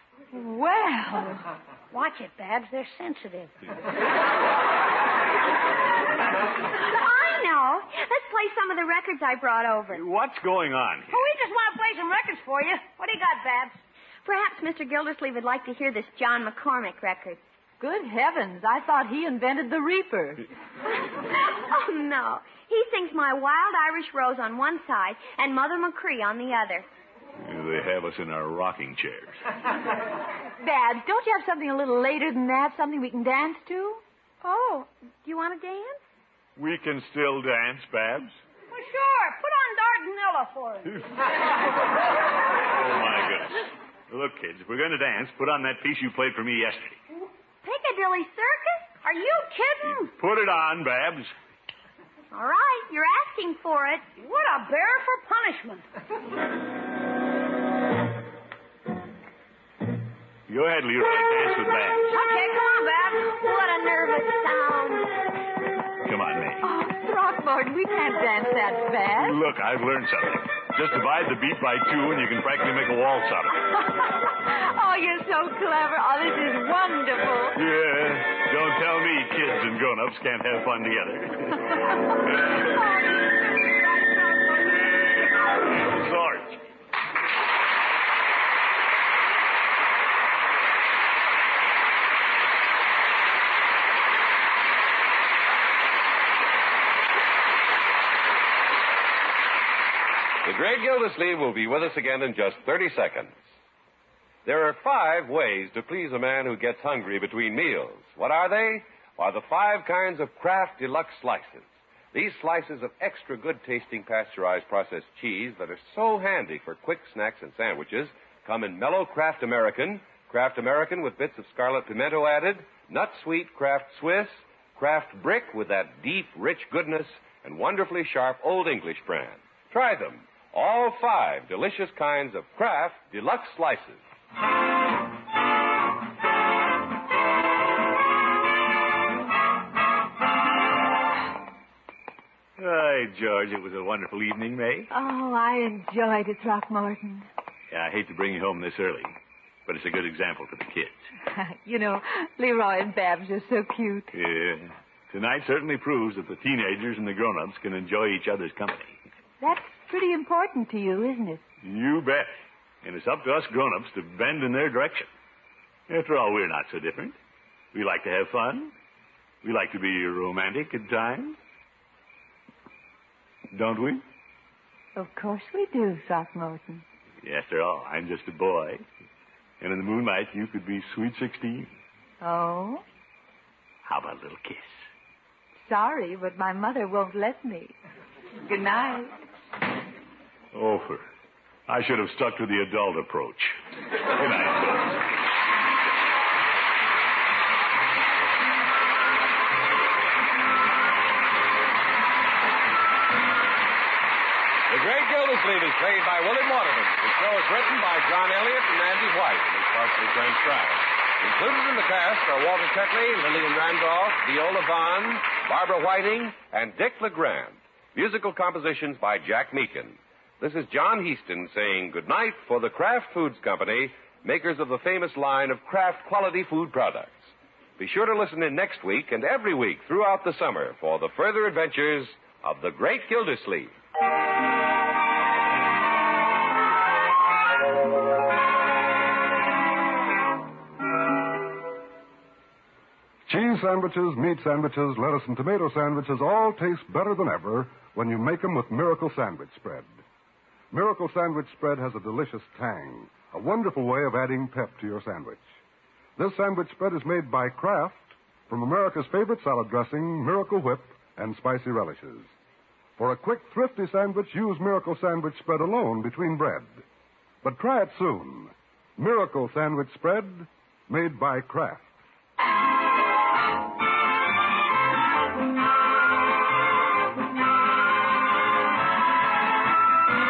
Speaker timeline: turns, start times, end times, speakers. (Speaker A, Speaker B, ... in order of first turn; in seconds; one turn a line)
Speaker A: 0.3-1.4
Speaker B: 1.9-3.5
Speaker C: 6.8-10.0
Speaker D: 9.9-11.3
Speaker B: 11.1-13.8
Speaker C: 14.2-17.4
Speaker A: 17.8-20.5
Speaker C: 21.5-26.9
Speaker D: 27.4-29.4
Speaker A: 30.6-34.0
Speaker C: 34.4-36.0
Speaker D: 36.6-38.4
Speaker B: 38.7-41.0
Speaker D: 40.9-41.3
Speaker D: 42.6-47.0
Speaker C: 47.6-48.9
Speaker B: 49.0-50.1
Speaker D: 49.8-51.3
Speaker C: 52.3-54.1
Speaker B: 54.2-55.8
Speaker D: 60.5-62.2
Speaker B: 62.1-63.3
Speaker C: 63.3-65.1
Speaker D: 66.0-66.7
Speaker A: 66.6-69.4
Speaker D: 69.2-73.7
Speaker A: 73.7-77.6
Speaker D: 77.5-81.9
Speaker B: 82.6-84.8
Speaker D: 84.6-86.6
Speaker E: 100.4-103.4
Speaker E: 104.5-134.0
Speaker D: 142.6-144.9
Speaker A: 144.9-147.3
Speaker D: 147.7-149.2
Speaker D: 149.7-151.0
Speaker A: 151.3-154.1
Speaker D: 154.1-159.0
Speaker A: 159.4-161.4
Speaker D: 161.6-162.3
Speaker D: 162.8-165.1
Speaker D: 165.9-167.2
Speaker D: 167.7-168.7
Speaker D: 169.4-171.4
Speaker D: 173.5-174.0
Speaker A: 174.9-176.8
Speaker D: 177.2-178.8
Speaker D: 179.6-181.7
Speaker A: 182.2-182.8
Speaker D: 183.8-184.8
Speaker A: 185.6-187.7
Speaker A: 188.4-189.2
Speaker D: 190.5-191.1
Speaker D: 191.7-194.9
Speaker E: 204.7-233.7
Speaker F: 243.3-249.9
Speaker F: 250.7-255.5
Speaker F: 256.2-262.3
Speaker F: 263.0-266.8
Speaker F: 267.4-271.9